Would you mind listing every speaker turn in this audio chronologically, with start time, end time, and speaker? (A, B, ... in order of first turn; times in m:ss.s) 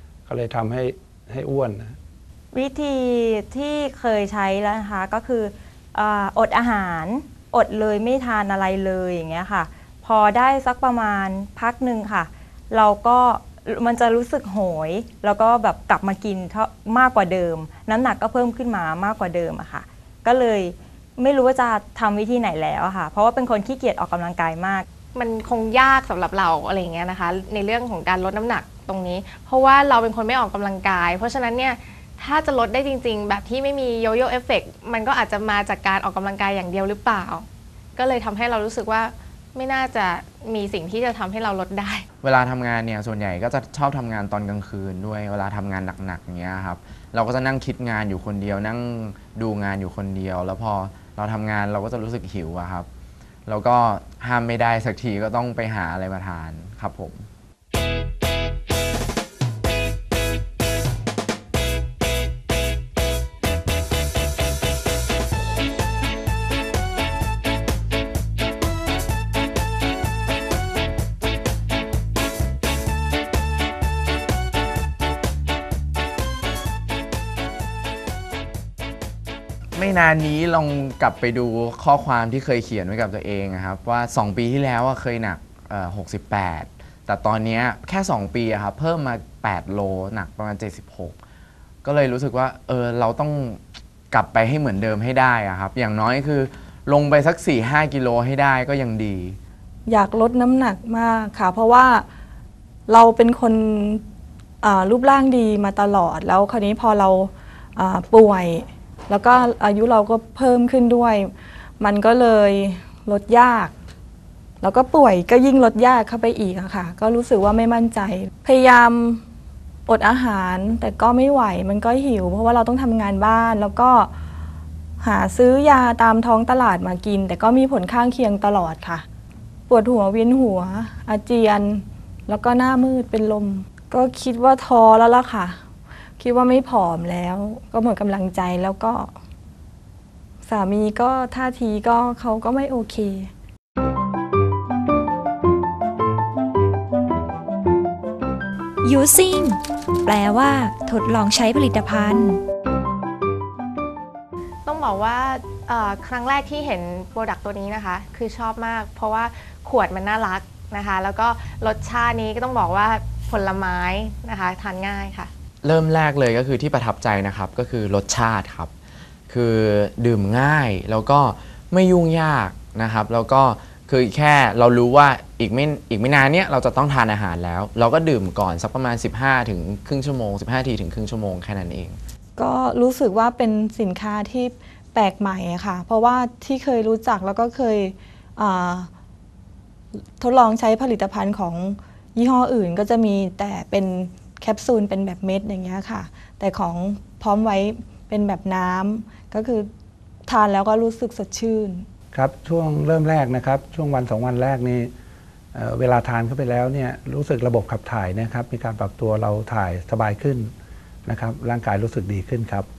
0:00.3-0:02.0 A
0:02.5-0:24.8 B
0:25.1-0:42.0 C
0:42.2-0:52.9 D
0:53.5-0:57.3 D
1:19.8-1:31.2 D
1:31.8-1:39.4 D
1:39.9-1:42.0 E
1:42.9-1:44.0 E
1:44.6-1:53.7 E
1:54.6-1:59.2 E
1:59.8-2:04.1 E
2:05.0-2:09.0 E
2:09.7-2:15.6 E
2:16.2-2:19.1 E
2:20.4-2:23.3 E
2:28.8-2:32.4 F
2:34.7-2:45.3 C
2:45.6-2:48.7 D
2:49.3-3:02.0 D
3:02.4-3:08.9 E
3:10.0-3:19.7 E
3:20.2-3:21.8 E
3:22.1-3:24.9 A
3:25.5-3:30.5 A
3:31.0-3:32.7 A